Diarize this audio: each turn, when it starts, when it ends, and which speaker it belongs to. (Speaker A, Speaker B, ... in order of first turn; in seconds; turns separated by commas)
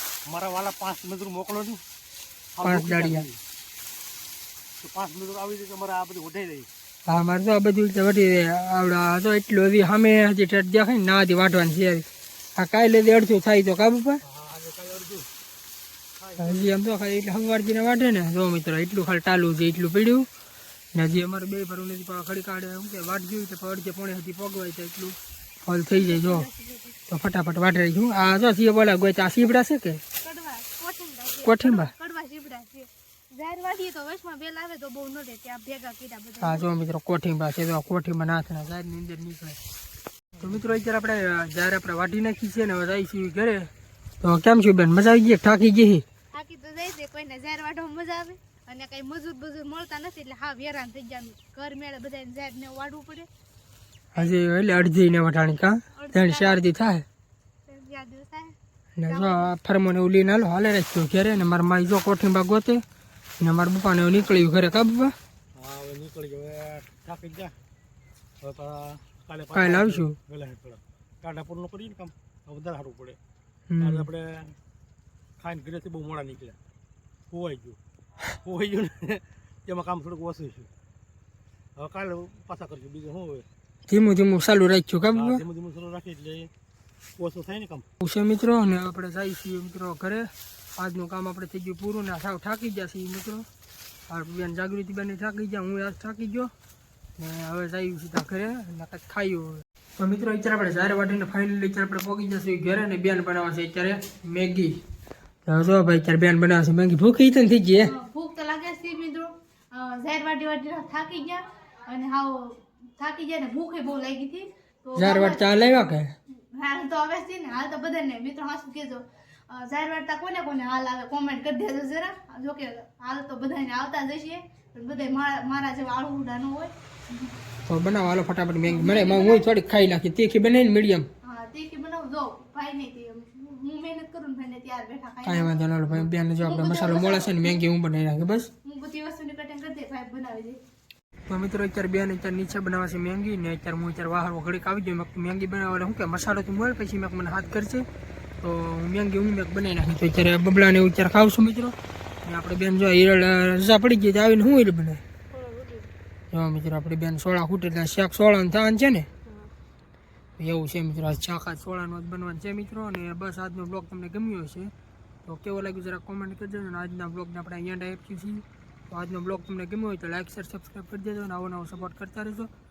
Speaker A: 0.3-1.8, Speaker A: 2.5-3.4, Speaker B: 2.6-3.3, Speaker A: 4.8-6.7, Speaker B: 7.1-12.1, Speaker B: 12.6-14.2, Speaker A: 14.2-15.3, Speaker A: 16.2-16.8, Speaker B: 16.4-20.3, Speaker B: 20.9-26.5, Speaker C: 25.9-27.0, Speaker B: 27.1-30.0, Speaker C: 30.2-36.7, Speaker B: 31.4-31.9, Speaker B: 36.4-39.6, Speaker B: 40.4-43.7, Speaker B: 44.2-46.0, Speaker C: 46.3-53.3, Speaker B: 54.1-57.0, Speaker C: 56.0-56.6, Speaker C: 57.7-58.6, Speaker B: 59.0-62.8, Speaker C: 59.1-59.5, Speaker B: 63.4-65.2, Speaker A: 65.5-67.5, Speaker A: 68.4-73.2, Speaker B: 69.5-70.2, Speaker B: 73.7-74.1, Speaker A: 73.8-74.5, Speaker A: 75.4-76.6, Speaker A: 77.3-77.8, Speaker A: 78.3-80.7, Speaker A: 81.8-83.5, Speaker B: 83.9-85.4, Speaker A: 85.1-86.5, Speaker A: 87.2-87.9, Speaker B: 88.0-93.5, Speaker B: 94.1-96.5, Speaker B: 97.2-104.8, Speaker B: 105.5-107.9, Speaker C: 107.8-115.7, Speaker B: 115.0-116.1, Speaker C: 116.3-127.3, Speaker B: 127.7-131.1, Speaker C: 128.6-129.5, Speaker C: 131.2-137.6, Speaker B: 135.2-138.5, Speaker C: 138.6-140.6, Speaker B: 141.3-147.9, Speaker B: 148.4-151.7, Speaker B: 152.2-155.0, Speaker C: 155.3-155.9, Speaker B: 156.3-159.1, Speaker B: 160.4-164.7, Speaker B: 165.2-172.5